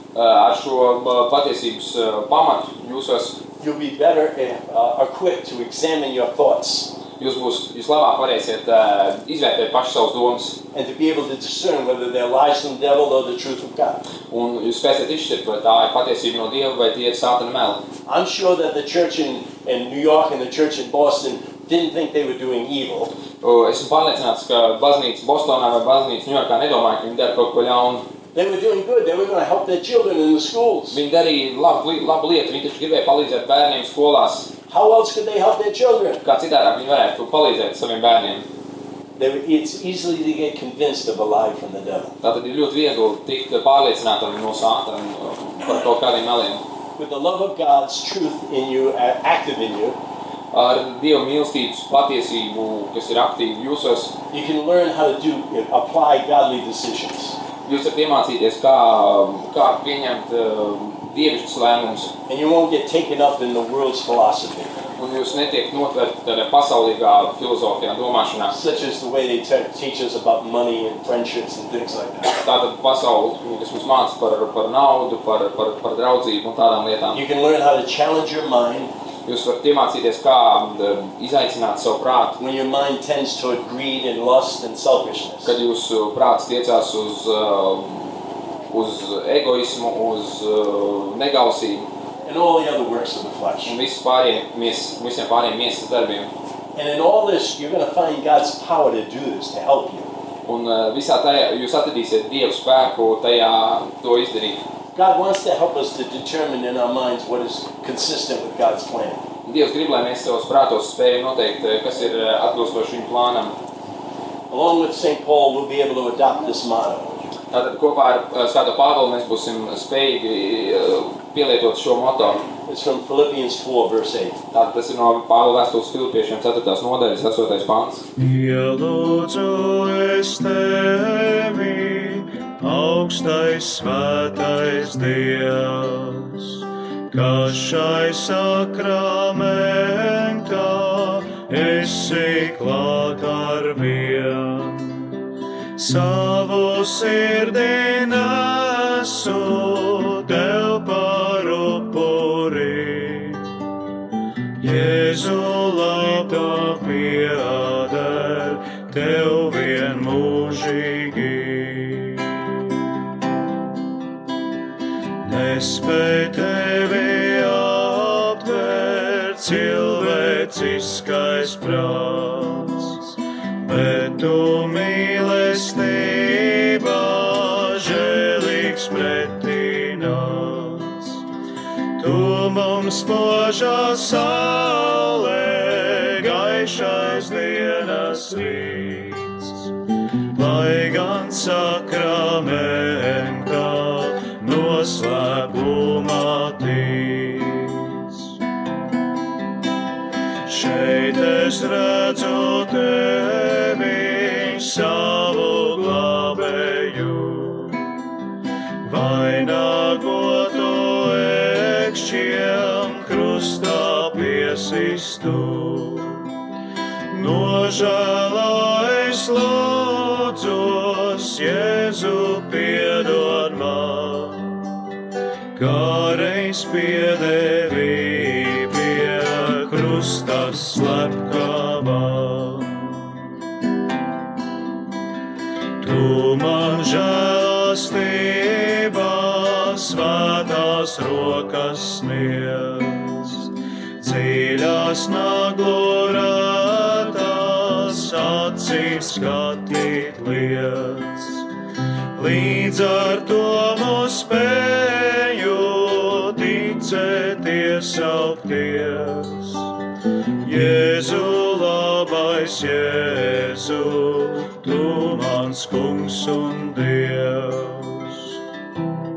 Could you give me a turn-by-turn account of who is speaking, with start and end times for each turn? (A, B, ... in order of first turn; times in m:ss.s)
0:00.1-0:03.4 A
0:03.6-0:06.9 B
0:07.2-0:10.6 A
0:10.7-0:14.0 B
0:14.3-0:17.8 A
0:18.1-0:23.1 B
0:23.4-0:28.0 A
0:28.3-0:31.0 B
0:30.9-0:34.5 A
0:34.7-0:36.2 B
0:36.2-0:38.4 A
0:39.2-0:42.2 B
0:42.2-0:46.6 A
0:47.0-0:50.0 B
0:50.5-0:54.2 A
0:54.3-0:57.4 B
0:57.6-1:02.1 A
1:02.3-1:04.8 B
1:05.0-1:08.5 A
1:08.5-1:12.4 B
1:12.3-1:17.2 A
1:17.1-1:18.9 B
1:19.3-1:22.4 A
1:22.4-1:25.5 B
1:25.4-1:31.9 A
1:32.2-1:33.8 B
1:33.6-1:36.3 A
1:36.8-1:40.1 B
1:40.4-1:44.6 A
1:45.0-1:49.2 B
1:49.4-1:53.5 A
1:54.5-1:57.2 B
1:57.5-2:02.5 A
2:02.6-2:04.4 B
2:04.5-2:08.1 A
2:08.2-2:25.2 C
2:25.8-2:33.5 C
2:34.6-2:42.8 C
2:45.2-3:01.2 C
3:02.0-3:09.7 C
3:10.3-3:18.3 C
3:20.5-3:28.0 C
3:28.8-3:36.3 C
3:37.1-3:44.8 C
3:45.6-3:53.2 C
3:55.8-4:11.5 C
4:12.1-4:19.7 C
4:20.4-4:28.4 C